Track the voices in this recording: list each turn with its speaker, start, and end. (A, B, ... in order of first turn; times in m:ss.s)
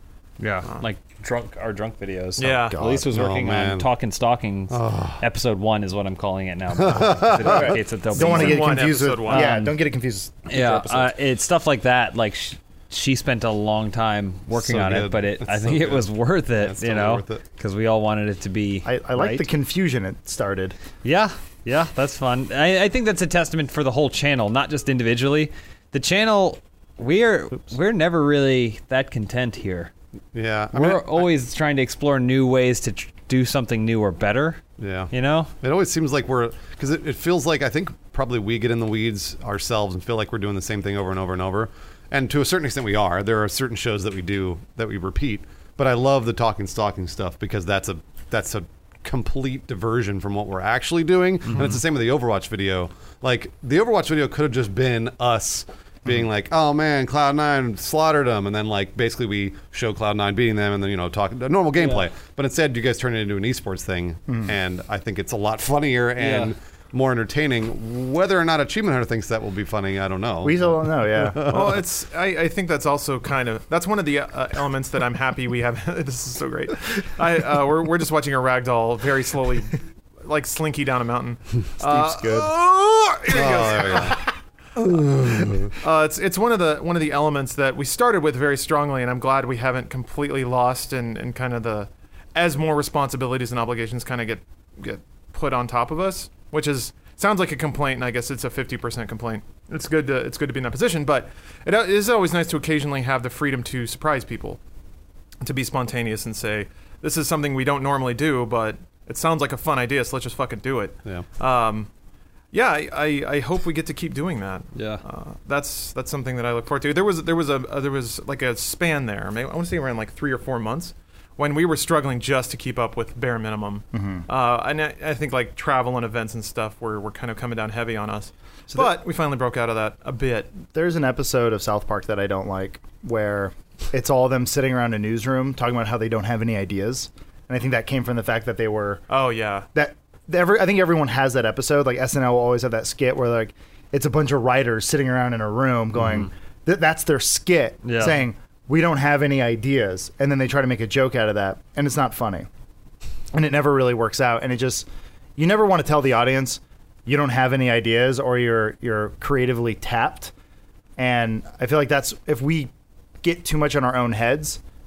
0:00.4-0:09.8 A
0:02.4-0:02.8 B
0:02.4-0:03.1 C
0:03.1-0:03.9 D
0:04.7-0:05.2 D
0:06.8-0:07.8 D
0:07.4-0:11.1 C
0:08.1-0:09.6 B
0:10.5-0:19.5 A
0:14.5-0:17.4 D
0:18.8-0:20.8 C
0:21.0-0:29.9 A
0:30.3-0:31.3 D
0:30.7-0:35.5 A
0:34.8-1:11.8 D
1:06.2-1:06.5 A
1:10.4-1:11.5 C
1:11.4-1:24.3 B
1:21.8-1:22.5 C
1:23.3-1:24.2 D
1:24.8-1:25.7 D
1:25.8-1:44.6 B
1:45.4-1:51.9 B
1:52.5-2:10.5 B
1:54.7-1:55.0 A
2:03.9-2:04.2 C
2:10.7-2:19.0 C
2:19.1-2:19.7 B
2:19.7-2:32.5 C
2:27.8-2:28.2 A
2:33.3-2:40.3 C
2:41.0-2:42.7 C
2:43.2-2:44.6 C